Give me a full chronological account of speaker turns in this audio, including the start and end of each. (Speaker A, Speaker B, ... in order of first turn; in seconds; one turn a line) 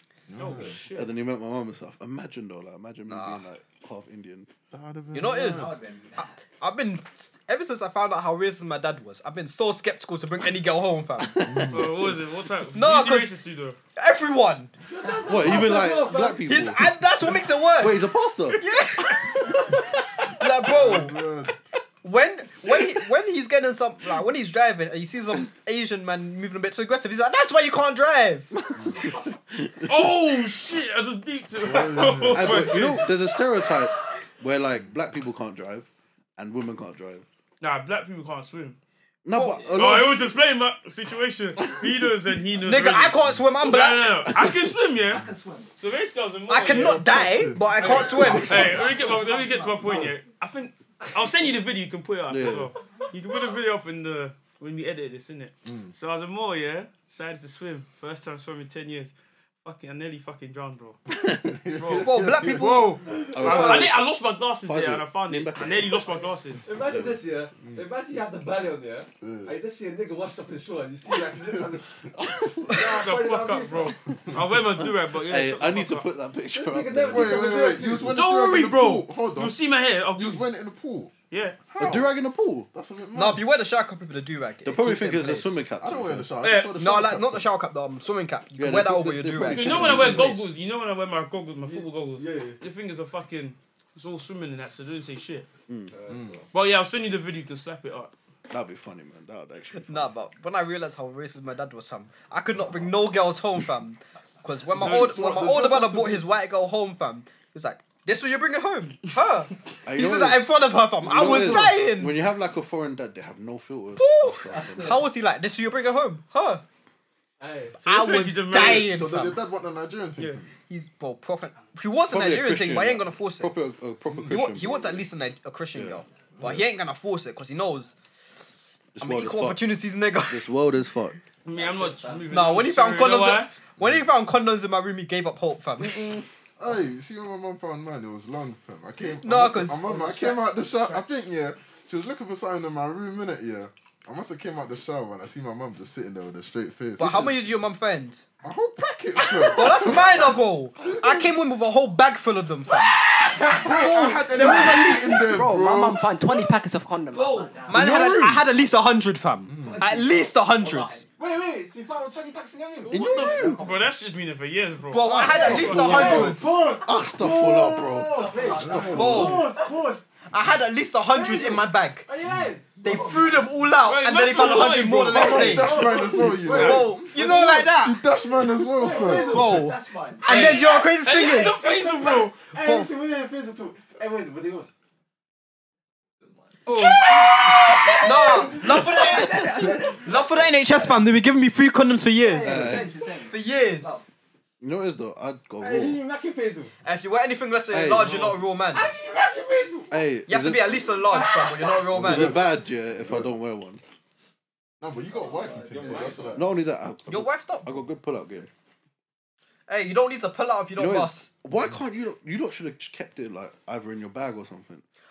Speaker A: 0.3-0.8
Speaker B: 0.4-1.1
Speaker C: 0.5-4.5
Speaker D: 3.1-3.4
Speaker A: 4.7-5.8
Speaker D: 5.1-11.6
Speaker E: 5.2-6.4
Speaker A: 11.4-12.2
Speaker B: 11.6-13.8
Speaker D: 12.7-13.4
Speaker D: 13.9-14.7
Speaker F: 14.9-16.6
Speaker E: 15.0-15.7
Speaker C: 15.2-17.0
Speaker D: 16.4-21.2
Speaker C: 17.8-18.6
Speaker A: 20.6-21.6
Speaker D: 22.0-28.5
Speaker C: 28.7-30.0
Speaker A: 28.8-29.1
Speaker B: 29.8-33.2
Speaker A: 31.6-32.9
Speaker C: 32.3-37.2
Speaker B: 37.6-38.8
Speaker C: 39.2-40.3
Speaker D: 39.3-39.6
Speaker E: 39.4-39.9
Speaker B: 39.8-47.4
Speaker D: 42.6-44.2
Speaker C: 44.3-44.7
Speaker E: 45.0-45.8
Speaker D: 46.5-48.7
Speaker A: 46.7-49.0
Speaker E: 47.9-50.1
Speaker B: 48.3-61.0
Speaker C: 52.3-52.7
Speaker A: 55.6-55.9
Speaker A: 61.2-63.3
Speaker B: 61.7-66.7
Speaker D: 61.9-63.0
Speaker F: 63.3-63.9
Speaker C: 63.3-64.0
Speaker C: 64.6-66.1
Speaker F: 66.6-71.9
Speaker C: 66.8-67.2
Speaker A: 67.6-67.8
Speaker A: 69.2-69.5
Speaker C: 72.2-72.7
Speaker F: 72.7-74.0
Speaker B: 72.8-76.1
Speaker C: 74.7-77.5
Speaker F: 76.5-78.1
Speaker A: 77.0-81.2
Speaker B: 78.1-80.5
Speaker B: 81.3-81.6
Speaker A: 81.7-83.5
Speaker C: 81.8-82.7
Speaker D: 83.1-85.6
Speaker C: 84.6-86.3
Speaker A: 85.8-87.5
Speaker B: 86.4-86.8
Speaker D: 86.8-90.4
Speaker C: 88.6-90.5
Speaker B: 89.5-95.5
Speaker F: 91.7-92.5
Speaker C: 95.7-95.9
Speaker F: 95.9-96.5
Speaker A: 96.1-96.4
Speaker B: 96.5-98.1
Speaker C: 98.5-100.1
Speaker D: 99.8-112.2
Speaker A: 104.7-106.2
Speaker B: 104.8-105.2
Speaker C: 109.8-115.0
Speaker A: 111.2-111.5
Speaker D: 114.0-116.6
Speaker E: 114.5-115.0
Speaker F: 117.4-117.8
Speaker B: 117.8-119.0
Speaker D: 117.8-119.4
Speaker A: 118.5-120.5
Speaker D: 120.7-123.5
Speaker C: 122.1-125.0
Speaker A: 124.1-124.4
Speaker D: 124.3-127.9
Speaker C: 125.7-126.6
Speaker A: 126.4-126.6
Speaker C: 128.9-129.7
Speaker D: 129.0-130.5
Speaker C: 130.3-131.2
Speaker B: 131.4-133.5
Speaker E: 131.5-132.6
Speaker D: 132.3-136.2
Speaker A: 136.6-147.4
Speaker D: 139.2-141.0
Speaker D: 147.0-148.2
Speaker A: 148.4-151.2
Speaker D: 149.2-155.2
Speaker A: 153.4-156.1
Speaker C: 153.7-154.2
Speaker E: 154.3-158.0
Speaker D: 157.1-161.0
Speaker C: 157.7-158.4
Speaker A: 159.5-159.9
Speaker E: 159.6-161.1
Speaker F: 161.2-163.0
Speaker C: 162.9-163.6
Speaker E: 162.9-163.9
Speaker B: 162.9-166.3
Speaker D: 164.9-166.5
Speaker E: 165.2-166.2
Speaker C: 165.3-169.4
Speaker F: 165.5-170.0
Speaker E: 168.1-169.7
Speaker A: 168.4-169.3
Speaker D: 168.7-169.5
Speaker D: 170.3-172.1
Speaker F: 171.1-173.4
Speaker A: 172.2-172.5
Speaker D: 172.8-175.8
Speaker B: 173.8-177.0
Speaker A: 175.1-179.5
Speaker F: 175.2-176.9
Speaker D: 176.5-178.0
Speaker F: 178.7-179.8
Speaker E: 178.8-180.7
Speaker D: 179.2-181.6
Speaker B: 180.2-182.3
Speaker F: 181.4-184.7
Speaker D: 182.5-182.9
Speaker E: 186.2-186.7
Speaker D: 186.7-194.1
Speaker B: 186.8-187.1
Speaker E: 187.4-191.0
Speaker F: 187.7-189.1
Speaker E: 192.2-194.1
Speaker C: 192.4-192.9
Speaker C: 194.6-196.0
Speaker F: 195.6-196.7
Speaker D: 196.8-198.9
Speaker C: 197.7-198.3
Speaker F: 198.7-200.0
Speaker C: 199.9-200.8
Speaker D: 200.3-202.4
Speaker E: 201.2-201.8
Speaker A: 201.9-203.3
Speaker C: 201.9-203.8
Speaker A: 204.8-206.5
Speaker E: 205.1-206.3
Speaker F: 205.5-206.4
Speaker C: 206.3-208.5
Speaker D: 207.1-207.7
Speaker D: 209.7-211.3
Speaker C: 210.8-214.8